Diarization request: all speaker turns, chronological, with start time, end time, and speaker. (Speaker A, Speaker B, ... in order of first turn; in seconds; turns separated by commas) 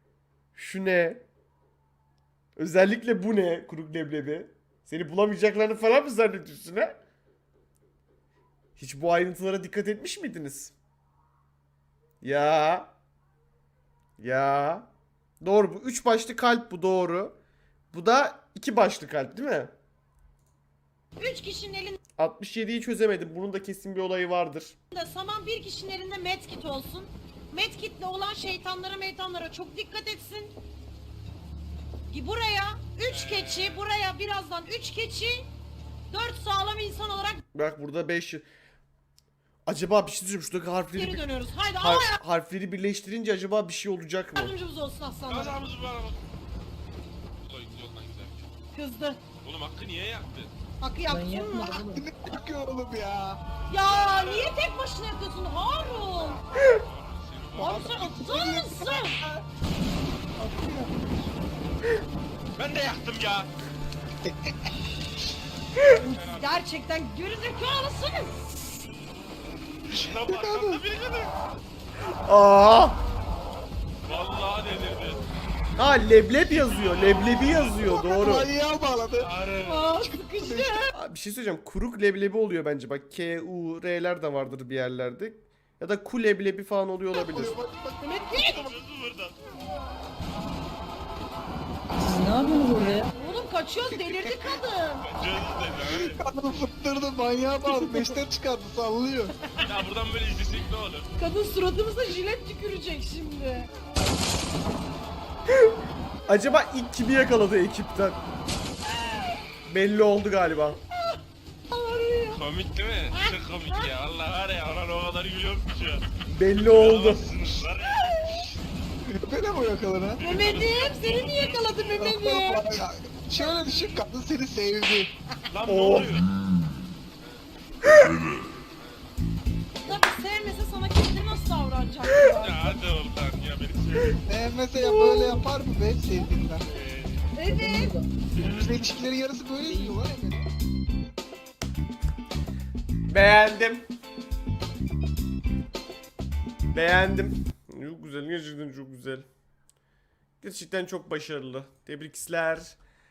Speaker A: 0.5-1.2, Speaker A: 2.6-7.0, Speaker A: 8.8-10.7, Speaker A: 12.2-12.9, Speaker A: 14.2-14.9, Speaker A: 15.4-17.4, Speaker A: 17.9-19.7, Speaker B: 21.2-22.0, Speaker A: 22.2-24.8, Speaker B: 24.9-30.5, Speaker B: 32.1-35.5, Speaker C: 33.1-33.9, Speaker B: 36.1-37.4, Speaker A: 37.5-38.4, Speaker A: 39.7-41.2, Speaker B: 40.9-42.2, Speaker A: 41.8-44.5, Speaker B: 44.4-45.6, Speaker C: 45.3-46.2, Speaker C: 47.4-48.5, Speaker B: 48.7-49.2, Speaker C: 49.4-50.5, Speaker B: 50.8-51.8, Speaker D: 51.1-52.0, Speaker E: 51.7-53.4, Speaker B: 53.7-56.4, Speaker C: 53.9-54.6, Speaker C: 56.5-57.9, Speaker B: 57.6-59.2, Speaker E: 57.6-59.5, Speaker E: 60.4-61.3, Speaker C: 62.5-63.5, Speaker E: 64.2-64.7, Speaker B: 65.8-68.3, Speaker C: 65.9-66.6, Speaker E: 69.9-70.8, Speaker C: 69.9-71.3, Speaker A: 72.2-73.0, Speaker C: 74.0-75.2, Speaker A: 75.8-78.5, Speaker C: 76.5-78.3, Speaker E: 77.8-79.3, Speaker C: 79.2-80.0, Speaker B: 79.6-81.0, Speaker E: 80.0-80.9, Speaker A: 80.9-87.6, Speaker E: 87.1-88.8, Speaker B: 88.0-88.6, Speaker C: 88.4-89.5, Speaker D: 91.9-93.1, Speaker B: 93.1-95.1, Speaker E: 94.0-94.5, Speaker C: 95.0-96.2, Speaker E: 95.9-99.4, Speaker C: 99.6-101.1, Speaker B: 101.2-103.7, Speaker A: 106.3-108.2, Speaker A: 109.7-110.8, Speaker B: 111.7-112.4, Speaker C: 112.3-118.5, Speaker B: 113.1-113.9, Speaker A: 116.3-117.2, Speaker E: 119.0-120.2, Speaker C: 120.2-122.0, Speaker B: 120.2-122.6, Speaker E: 121.9-125.1, Speaker B: 123.4-124.0, Speaker C: 125.5-126.3, Speaker A: 125.7-126.2, Speaker C: 127.2-127.5, Speaker C: 128.4-129.0, Speaker B: 129.8-132.8, Speaker C: 132.2-134.2, Speaker E: 134.2-136.7, Speaker C: 136.6-137.3, Speaker B: 137.3-138.0, Speaker D: 137.4-138.1, Speaker C: 138.3-138.9, Speaker E: 138.4-140.5, Speaker D: 139.7-140.0, Speaker A: 143.1-143.8, Speaker A: 146.7-149.2, Speaker A: 150.4-152.8